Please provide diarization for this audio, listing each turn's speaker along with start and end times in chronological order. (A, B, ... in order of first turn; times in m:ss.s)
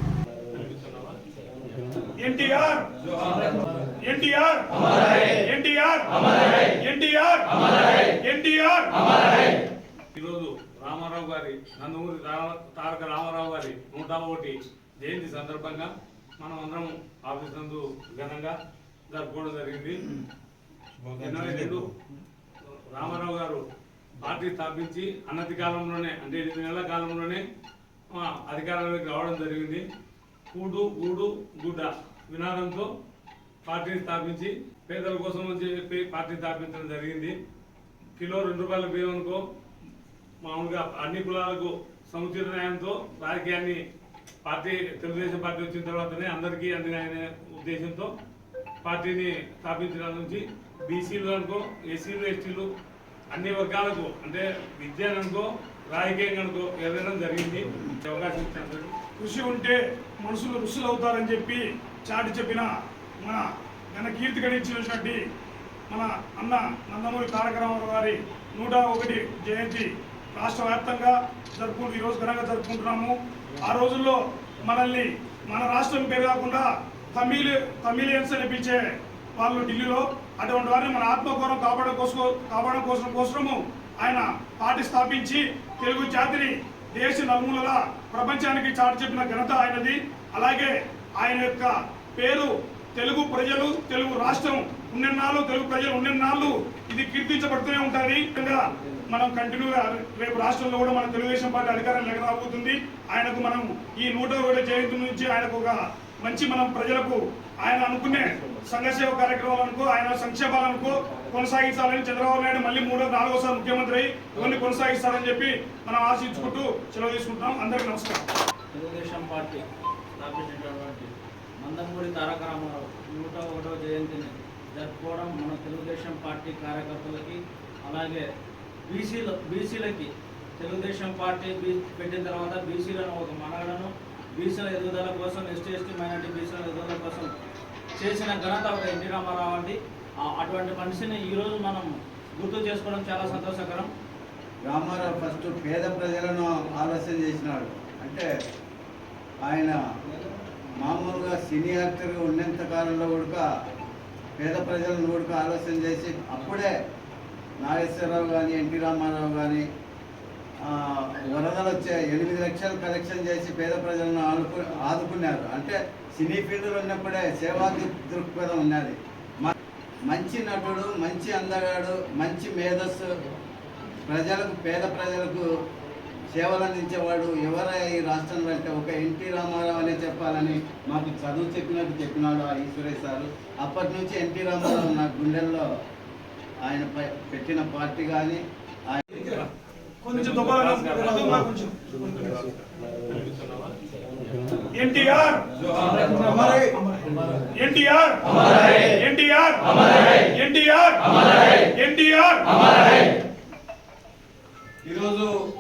0:00.6-0:01.1 A
0:02.2-0:02.9 B
0:04.0-0:09.5 B
0:10.2-0:18.6 A
0:19.1-0:20.2 A
0:21.1-0:21.9 A
0:22.9-0:23.6 A
0:24.2-0:27.4 A
0:28.1-0:29.8 A
0:30.5-0:32.9 A
0:33.6-0:37.4 A
0:38.2-0:39.4 A
0:40.4-0:43.8 A
0:44.4-0:48.1 A
0:48.8-0:52.7 A
0:53.3-0:59.0 A
0:59.2-1:05.2 B
1:05.9-1:18.8 B
1:19.4-1:58.2 B
1:58.7-1:59.6 C
2:00.2-2:01.1 C
2:01.6-2:08.2 C
2:08.9-2:17.3 C
2:18.0-2:23.9 C
2:24.6-2:28.3 D
2:29.4-2:29.8 D
2:30.8-2:33.4 D
2:34.4-2:36.7 D
2:37.6-2:39.6 D
2:40.6-2:49.5 D
2:50.1-2:53.1 D
2:54.0-2:55.4 D
2:56.3-3:05.6 D
3:06.6-3:09.3 D
3:10.0-3:11.8 B
3:10.3-3:11.0 A
3:12.0-3:12.6 A
3:13.1-3:13.8 A
3:14.7-3:15.5 B
3:15.9-3:16.7 D
3:17.5-3:23.0 B
3:24.8-3:25.3 D